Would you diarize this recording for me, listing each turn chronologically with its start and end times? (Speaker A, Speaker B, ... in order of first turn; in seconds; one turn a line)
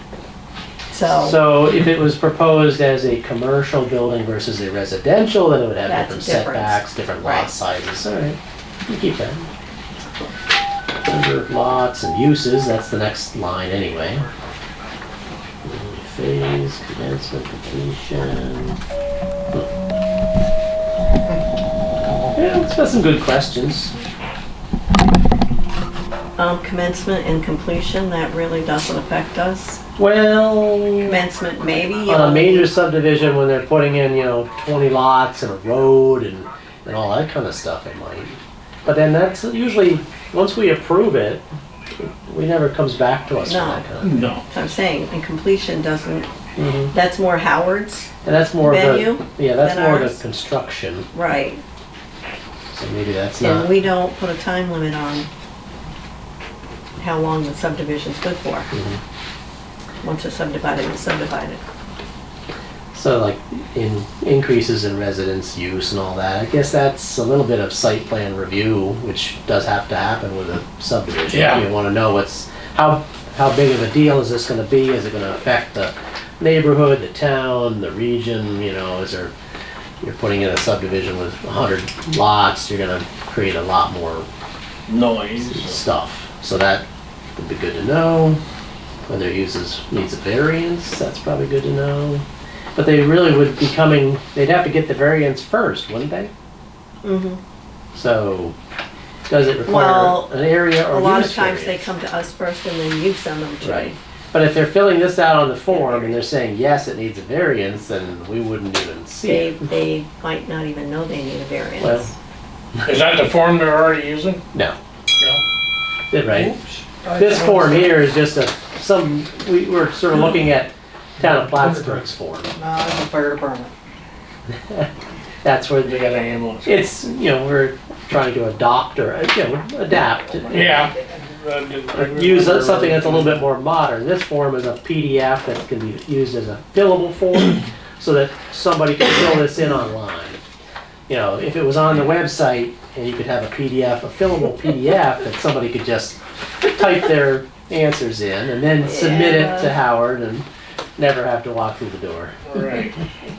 Speaker A: 0.9-1.4
Speaker B: 1.1-9.5
Speaker A: 5.9-7.5
Speaker B: 11.1-14.3
Speaker B: 15.6-18.8
Speaker B: 22.4-23.9
Speaker A: 26.4-29.8
Speaker B: 30.0-31.2
Speaker A: 31.0-32.7
Speaker B: 32.1-41.4
Speaker B: 42.0-44.3
Speaker A: 43.5-43.9
Speaker C: 44.0-44.5
Speaker A: 44.5-46.3
Speaker B: 46.6-46.9
Speaker A: 46.9-50.2
Speaker B: 48.2-51.1
Speaker A: 51.1-51.6
Speaker B: 52.7-53.8
Speaker A: 53.4-55.3
Speaker A: 57.0-58.7
Speaker B: 58.7-59.0
Speaker A: 60.0-61.6
Speaker B: 62.9-79.3
Speaker C: 71.3-71.7
Speaker B: 80.0-84.3
Speaker C: 84.9-85.8
Speaker B: 85.5-86.8
Speaker B: 87.4-88.4
Speaker B: 89.1-96.3
Speaker A: 97.0-97.4
Speaker B: 98.0-98.5
Speaker B: 99.3-101.9
Speaker A: 99.7-100.3
Speaker A: 100.9-104.0
Speaker B: 103.6-109.6
Speaker A: 105.7-106.2
Speaker A: 109.3-112.1
Speaker B: 111.8-112.1
Speaker C: 112.8-114.4
Speaker B: 116.1-116.6
Speaker D: 116.3-118.0
Speaker B: 117.1-122.5
Speaker D: 121.6-121.9
Speaker D: 122.6-123.7
Speaker B: 125.4-130.9
Speaker C: 125.8-126.8
Speaker C: 130.5-133.4
Speaker B: 131.9-140.4
Speaker B: 141.1-150.5
Speaker A: 148.8-149.8
Speaker B: 151.0-152.4
Speaker C: 152.5-152.9